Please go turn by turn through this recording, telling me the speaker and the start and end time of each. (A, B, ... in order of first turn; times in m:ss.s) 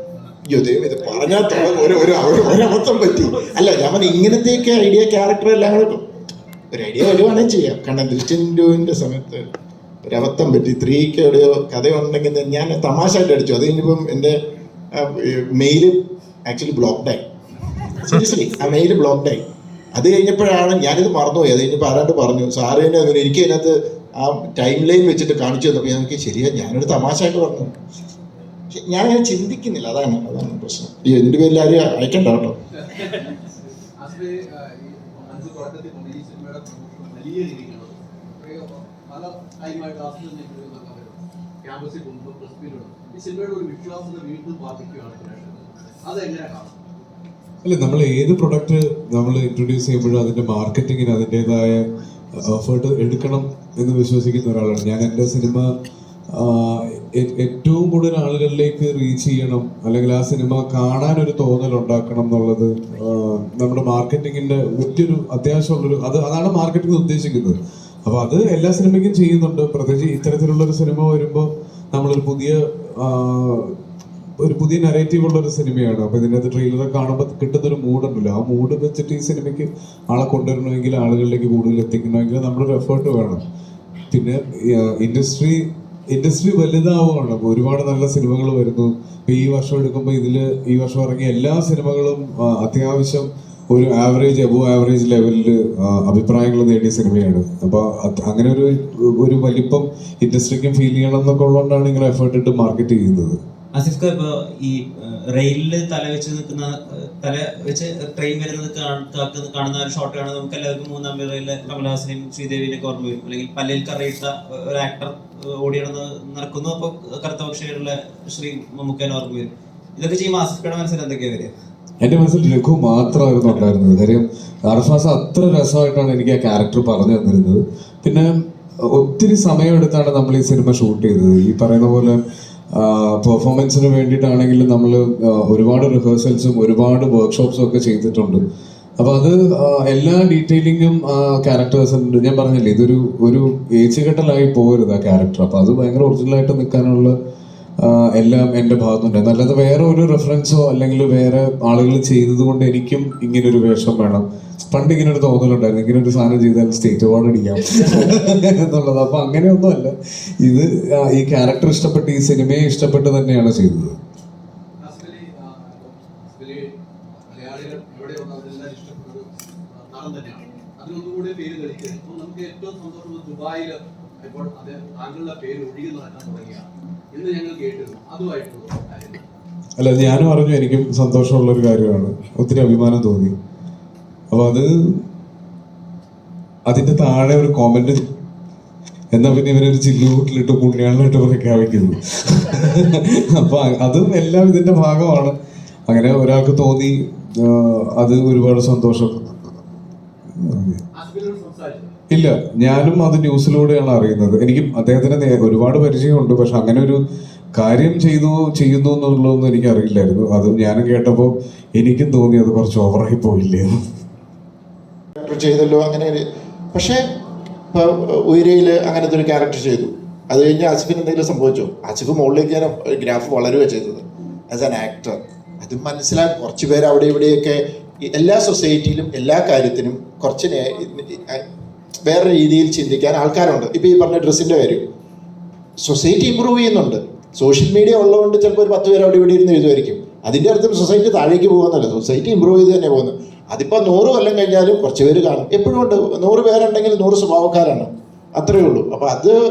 0:00.5-0:06.0 A
0:06.7-0:09.4 A
0:10.0-0:14.4 A
0:14.9-0:17.2 A
0:18.0-0:27.8 A
0:28.7-0:32.5 A
0:32.7-0:46.8 B
0:47.6-0:51.8 C
0:52.4-0:55.7 C
0:56.3-1:13.8 C
1:14.4-1:23.4 C
1:24.1-1:43.4 C
1:43.7-2:01.5 D
2:02.0-2:08.3 C
2:08.8-2:12.2 C
2:12.7-2:18.4 C
2:19.0-2:27.1 C
2:27.8-2:44.0 C
2:44.8-2:59.4 B
2:59.8-3:03.3 C
3:04.3-3:05.0 C
3:06.6-3:08.1 C
3:09.1-3:15.3 C
3:15.9-3:19.5 C
3:20.4-3:20.8 C
3:20.9-3:21.9 B
3:22.1-3:27.0 C
3:27.6-3:33.7 C
3:35.2-3:36.2 A
3:36.7-3:37.0 A
3:37.7-3:51.4 A
3:52.0-3:54.8 A
3:55.8-4:09.4 A